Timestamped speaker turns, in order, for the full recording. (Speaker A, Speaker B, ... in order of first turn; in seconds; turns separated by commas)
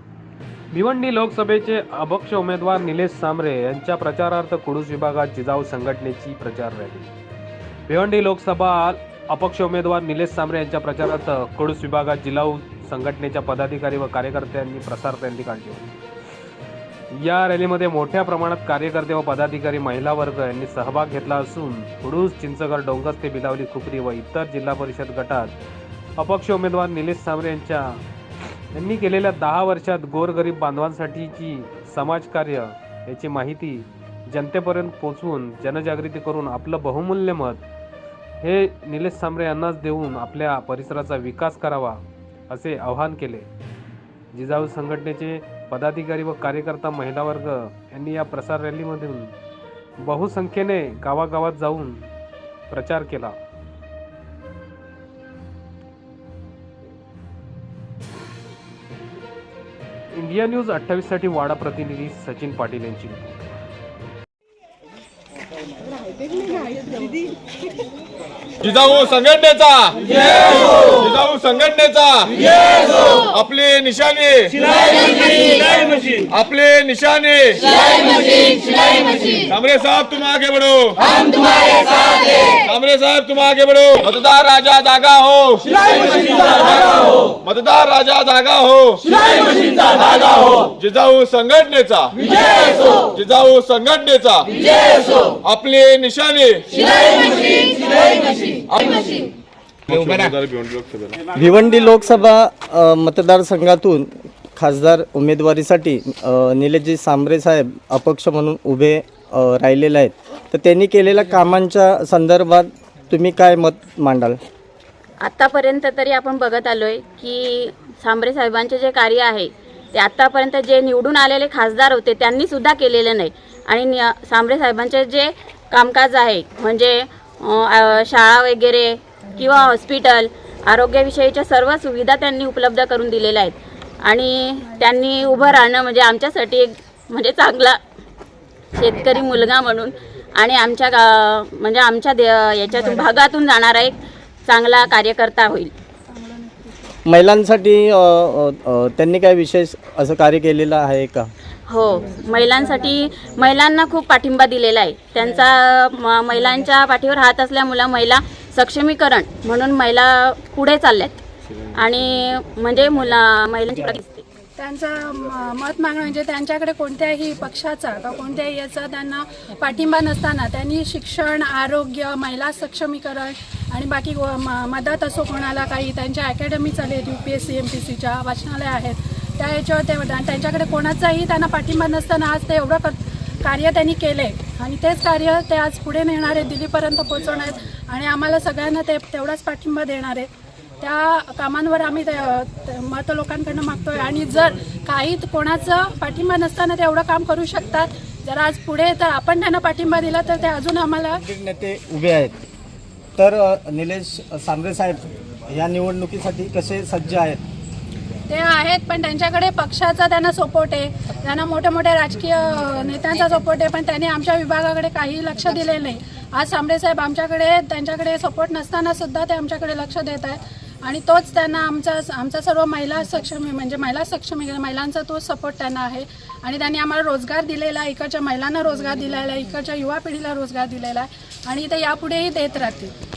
Speaker A: 0.7-7.1, Speaker A: 7.9-15.8, Speaker A: 17.1-25.5, Speaker A: 26.2-28.0, Speaker A: 28.7-37.6, Speaker A: 38.4-42.0, Speaker A: 42.5-43.5, Speaker A: 44.3-49.3, Speaker A: 50.0-52.1, Speaker A: 52.7-53.3, Speaker A: 60.1-63.4, Speaker B: 68.6-81.2, Speaker B: 82.5-97.8, Speaker B: 98.5-99.2, Speaker B: 99.9-101.2, Speaker C: 101.3-114.4, Speaker D: 115.2-137.8, Speaker D: 138.7-145.7, Speaker E: 146.3-146.7, Speaker C: 147.1-151.3, Speaker D: 151.7-161.2, Speaker D: 161.7-164.2, Speaker E: 164.6-190.3, Speaker E: 190.8-201.2, Speaker C: 201.2-202.3, Speaker C: 203.2-207.4, Speaker E: 208.3-232.9